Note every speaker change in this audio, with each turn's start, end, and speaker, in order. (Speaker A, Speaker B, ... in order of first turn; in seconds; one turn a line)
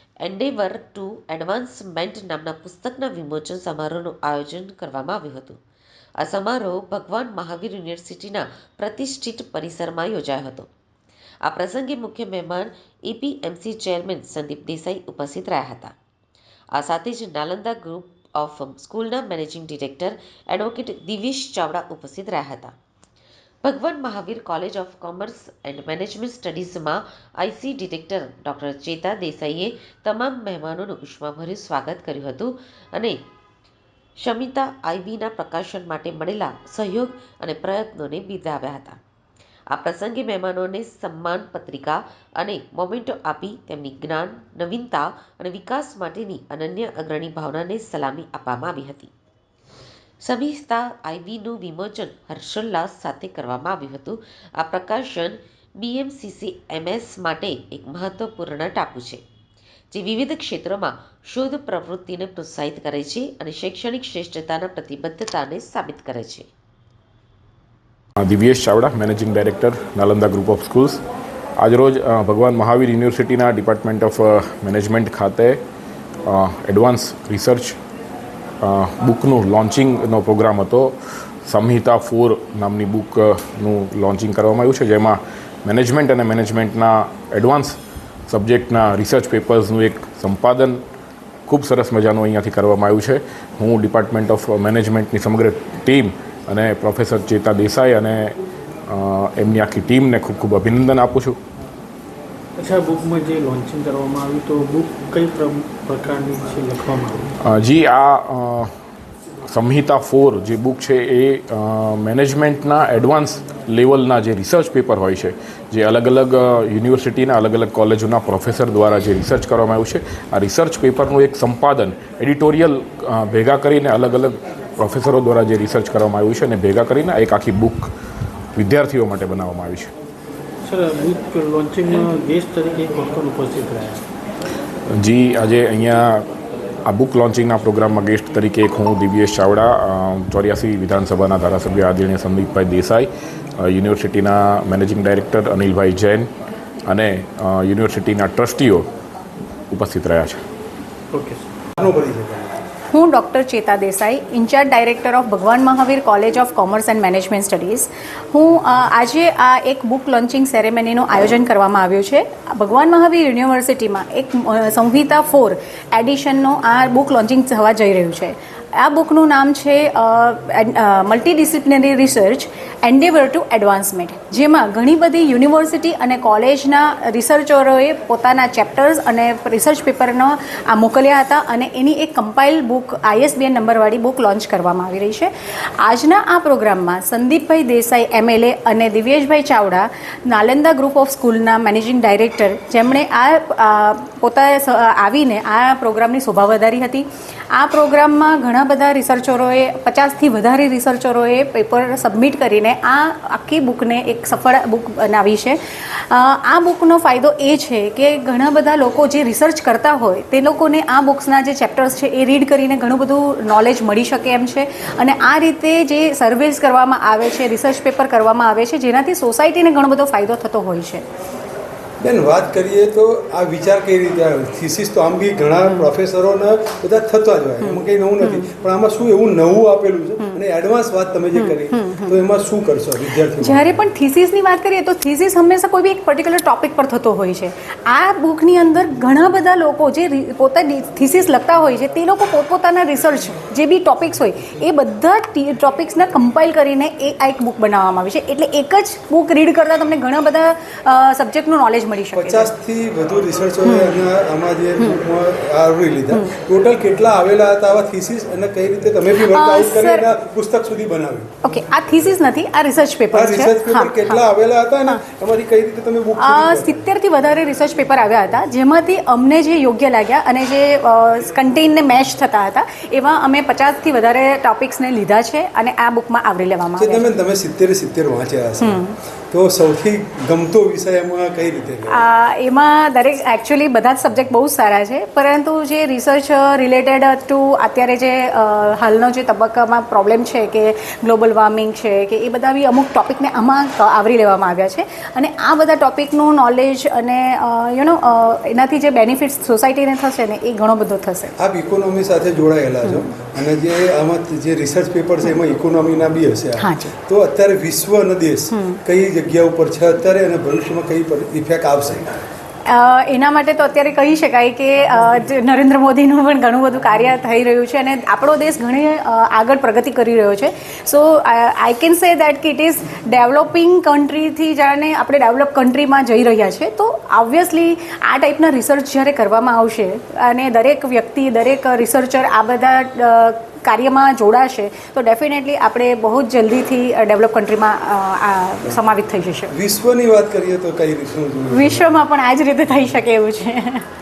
Speaker A: 0.2-5.6
Speaker A: 6.2-10.7
Speaker A: 11.4-15.9
Speaker A: 16.7-22.7
Speaker A: 23.6-33.2
Speaker A: 34.2-39.0
Speaker A: 39.7-49.1
Speaker A: 50.2-59.2
Speaker A: 59.9-66.5
Speaker B: 68.2-71.0
Speaker B: 71.6-75.6
Speaker B: 76.2-77.7
Speaker B: 78.6-80.9
Speaker B: 81.5-87.8
Speaker B: 88.3-90.8
Speaker B: 91.5-98.3
Speaker B: 98.9-101.3
Speaker C: 102.6-107.3
Speaker B: 107.4-108.7
Speaker B: 109.5-127.9
Speaker B: 128.6-129.9
Speaker C: 130.6-134.0
Speaker B: 135.0-136.2
Speaker B: 136.8-146.3
Speaker B: 146.9-148.8
Speaker B: 149.7-150.4
Speaker C: 151.1-151.5
Speaker D: 151.8-152.6
Speaker E: 152.9-221.0
Speaker D: 222.0-233.7
Speaker E: 225.6-225.9
Speaker E: 227.6-228.5
Speaker E: 231.3-232.2
Speaker E: 233.4-252.5
Speaker D: 252.1-261.3
Speaker E: 253.6-254.0
Speaker E: 259.2-260.1
Speaker E: 261.4-264.2
Speaker D: 263.1-266.9
Speaker E: 266.2-277.0
Speaker D: 276.8-278.8
Speaker E: 278.6-279.0
Speaker D: 279.3-282.0
Speaker E: 281.9-301.3
Speaker D: 301.4-312.1
Speaker E: 306.6-306.9
Speaker E: 308.5-308.8
Speaker E: 312.7-339.5
Speaker D: 339.5-341.8
Speaker E: 341.5-343.8